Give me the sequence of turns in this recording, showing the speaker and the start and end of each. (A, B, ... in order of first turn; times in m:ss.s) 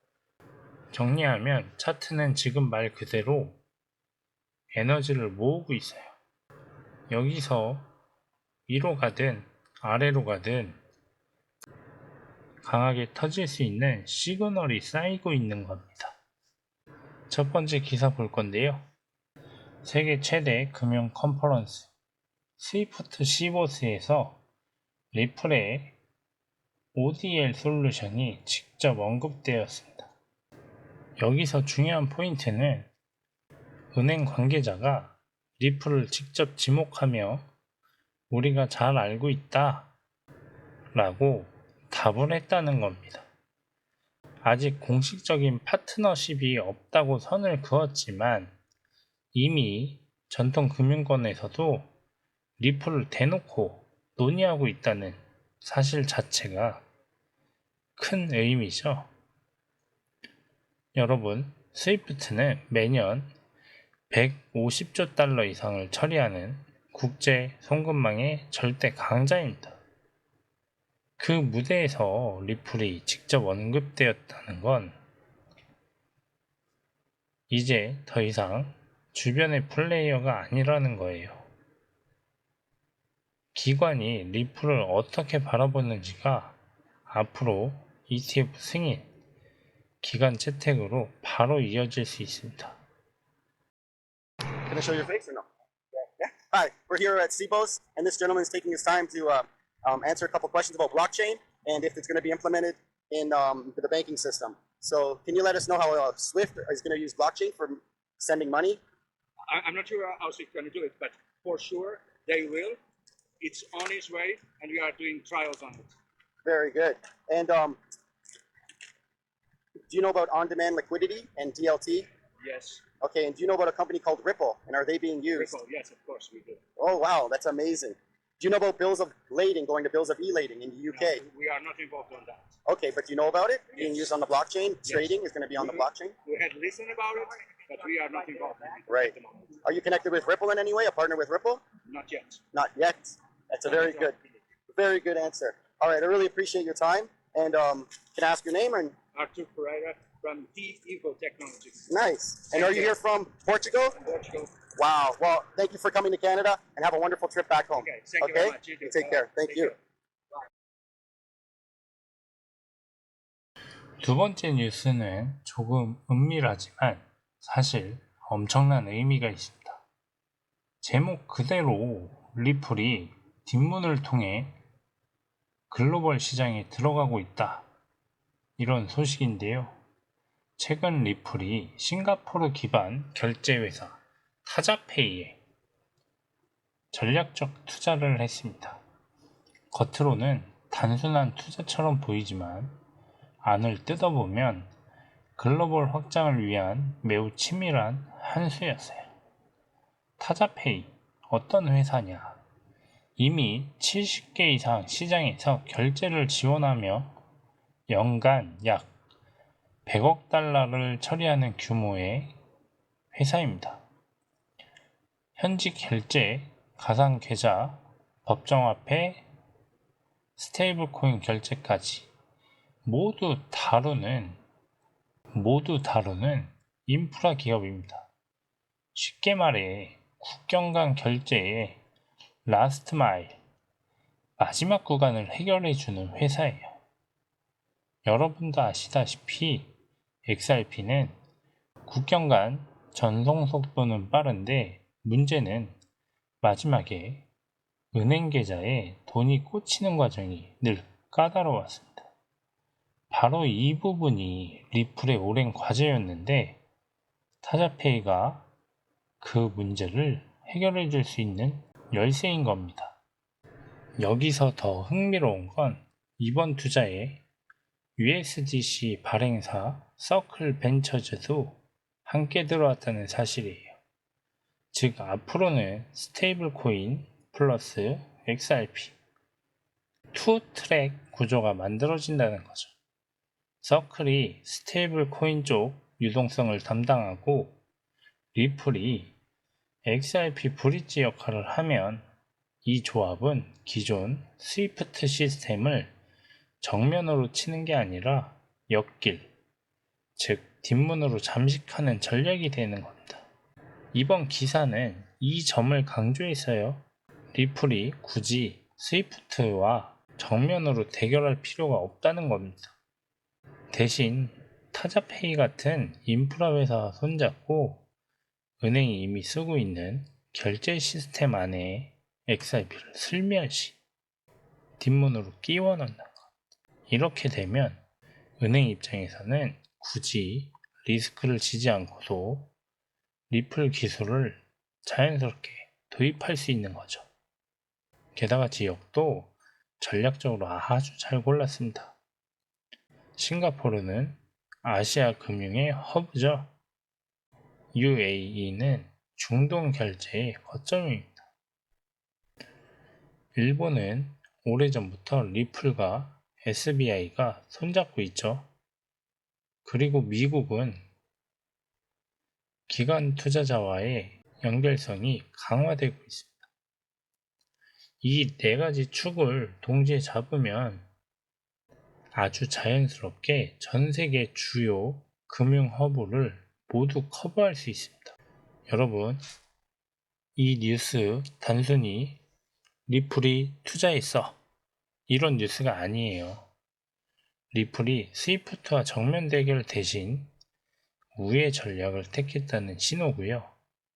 0:00.9-0:03.6 A
0:04.7-0:06.2 A
0:07.1-0:07.9 A
0:08.7-0:10.8 A
0:12.6-0:16.2 A
0:17.3-0:18.8 A
0:19.8-0:21.9 A
0:22.6-0:24.4 A
0:25.1-0:26.0 A
0:26.9-0:30.1 A
0:31.2-0:32.9 A
0:33.9-0:37.5 A
0:38.3-0:39.9 A
0:40.9-0:43.3 A
0:44.4-0:48.6 A
0:49.3-0:51.9 A
0:52.6-0:56.8 A
0:58.0-0:59.1 A
1:01.0-1:03.3 A
1:04.1-1:09.8 A
1:11.2-1:15.0 A
1:17.5-1:21.5 A
1:23.5-1:29.1 A
1:30.0-1:32.8 A
1:34.7-1:35.5 B
1:36.0-1:48.8 B
1:49.5-1:52.8 C
1:53.4-1:55.9 C
1:56.4-1:57.8 B
1:59.9-2:02.1 B
2:02.4-2:02.8 C
2:03.0-2:05.6 B
2:05.3-2:06.6 C
2:06.8-2:11.2 B
2:10.9-2:12.5 C
2:12.7-2:16.2 B
2:13.8-2:14.1 C
2:14.9-2:19.5 C
2:18.9-2:21.6 B
2:21.9-2:22.4 C
2:22.5-2:24.2 B
2:23.7-2:24.2 C
2:24.7-2:29.0 B
2:29.2-2:31.9 C
2:31.9-2:34.0 B
2:32.5-2:33.0 C
2:34.0-2:34.5 C
2:34.8-2:39.7 B
2:37.8-2:39.8 C
2:44.0-2:49.8 A
2:50.8-2:54.6 A
2:55.7-2:57.7 A
2:58.6-2:59.8 A
3:00.6-3:05.4 A
3:06.9-3:08.8 A
3:09.7-3:12.8 A
3:13.4-3:14.7 A
3:15.4-3:19.1 A
3:20.2-3:22.4 A
3:23.2-3:27.2 A
3:27.9-3:28.9 A
3:29.8-3:32.4 A
3:33.1-3:33.8 A
3:35.4-3:39.3 A
3:40.4-3:42.1 A
3:42.8-3:44.4 A
3:45.3-3:48.1 A
3:49.0-3:51.8 A
3:52.4-3:53.4 A
3:54.4-3:56.8 A
3:58.0-3:59.7 A
4:00.3-4:01.2 A
4:01.8-4:05.8 A
4:06.4-4:07.3 A
4:07.9-4:12.1 A
4:13.1-4:16.6 A
4:17.4-4:18.5 A
4:19.2-4:23.0 A
4:24.0-4:27.2 A
4:28.0-4:33.8 A
4:34.7-4:39.0 A
4:40.1-4:42.8 A
4:43.6-4:47.6 A
4:48.3-4:49.1 A
4:49.8-4:52.1 A
4:52.6-4:55.9 A
4:56.6-4:59.3 A
5:00.2-5:03.3 A
5:03.9-5:12.7 A
5:13.7-5:17.8 A
5:18.6-5:23.8 A
5:24.8-5:26.3 A
5:26.9-5:27.8 A
5:28.4-5:32.5 A
5:33.3-5:37.1 A
5:38.2-5:42.0 A
5:43.2-5:46.5 A
5:47.7-5:51.3 A
5:53.4-5:58.5 A
5:59.6-6:00.8 A
6:02.7-6:06.4 A
6:08.0-6:10.9 A
6:12.1-6:18.2 A
6:18.7-6:19.2 A
6:20.4-6:22.2 A
6:22.9-6:24.4 A
6:25.1-6:26.5 A
6:27.5-6:30.3 A
6:31.2-6:33.5 A